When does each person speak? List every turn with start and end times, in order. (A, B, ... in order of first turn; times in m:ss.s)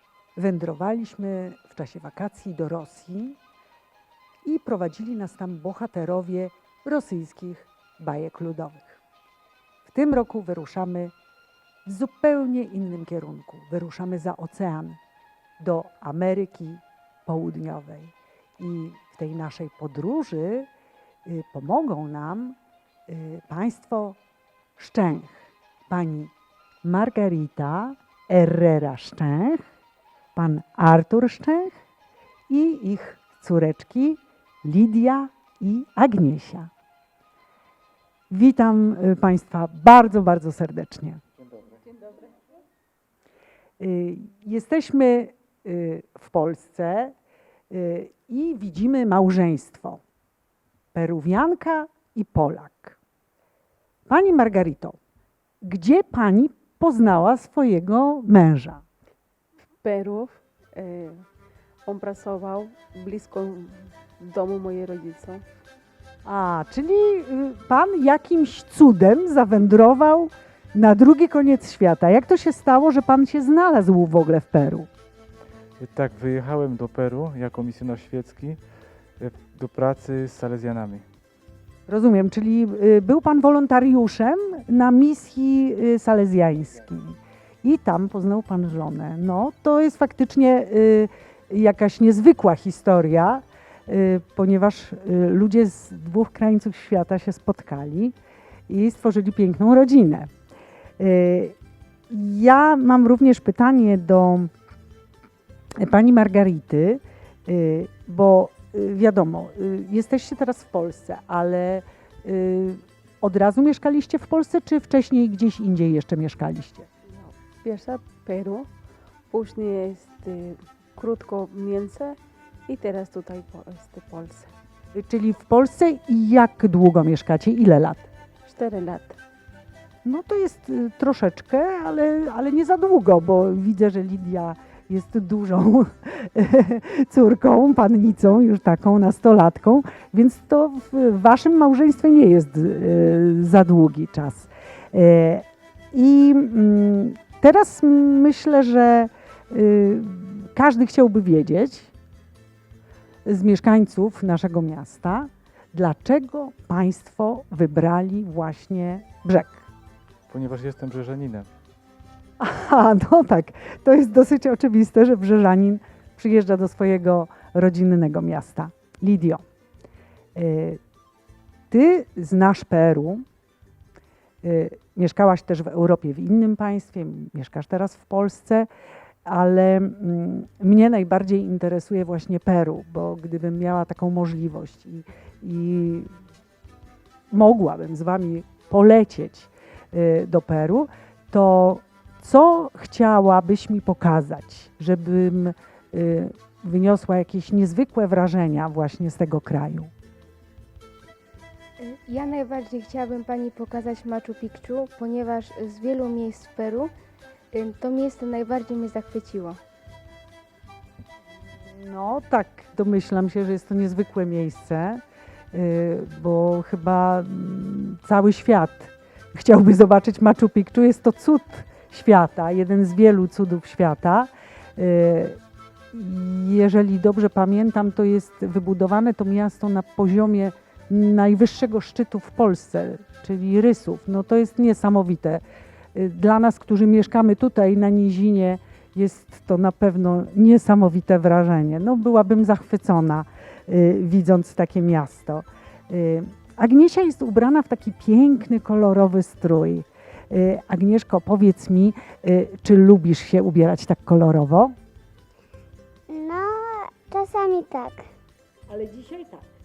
0:00.4-0:03.4 A
0:04.4-0:09.0 A
0:09.9-0:11.1 A
0:11.8-0:15.0 A
0:15.6-0:20.7 A
0:21.2-0:22.6 A
0:23.1-0:24.2 A
0:24.8-0:26.3 A
0:26.8-0:29.6 A
0:30.4-0:31.7 A
0:32.5-0:36.7 A
0:38.3-0:41.2 A
0:43.8-0:47.1 A
0:47.7-0:50.0 A
0:50.9-0:53.0 A
0:54.1-0:55.0 A
0:55.6-0:58.8 A
0:59.8-1:01.2 B
1:01.8-1:05.4 B
1:06.2-1:14.9 A
1:15.8-1:18.6 C
1:19.2-1:21.0 C
1:21.9-1:38.1 A
1:38.7-1:40.3 A
1:41.0-1:41.6 A
1:42.1-1:44.5 A
1:45.8-1:56.9 A
1:57.2-1:58.7 B
1:59.3-2:04.5 B
2:04.9-2:08.1 A
2:08.4-2:09.2 B
2:10.0-2:31.9 A
2:33.2-2:39.7 A
2:40.3-2:41.5 C
2:42.4-2:49.4 A
2:50.3-2:50.8 A
2:51.7-2:53.2 A
2:54.4-2:58.7 A
2:59.2-3:06.1 A
3:07.3-3:19.9 A
3:21.8-3:26.9 D
3:27.5-3:29.6 D
3:31.7-3:35.0 A
3:35.5-3:45.4 A
3:45.9-3:55.4 A
3:55.9-4:14.8 A
4:16.1-4:18.1 E
4:18.8-4:19.4 A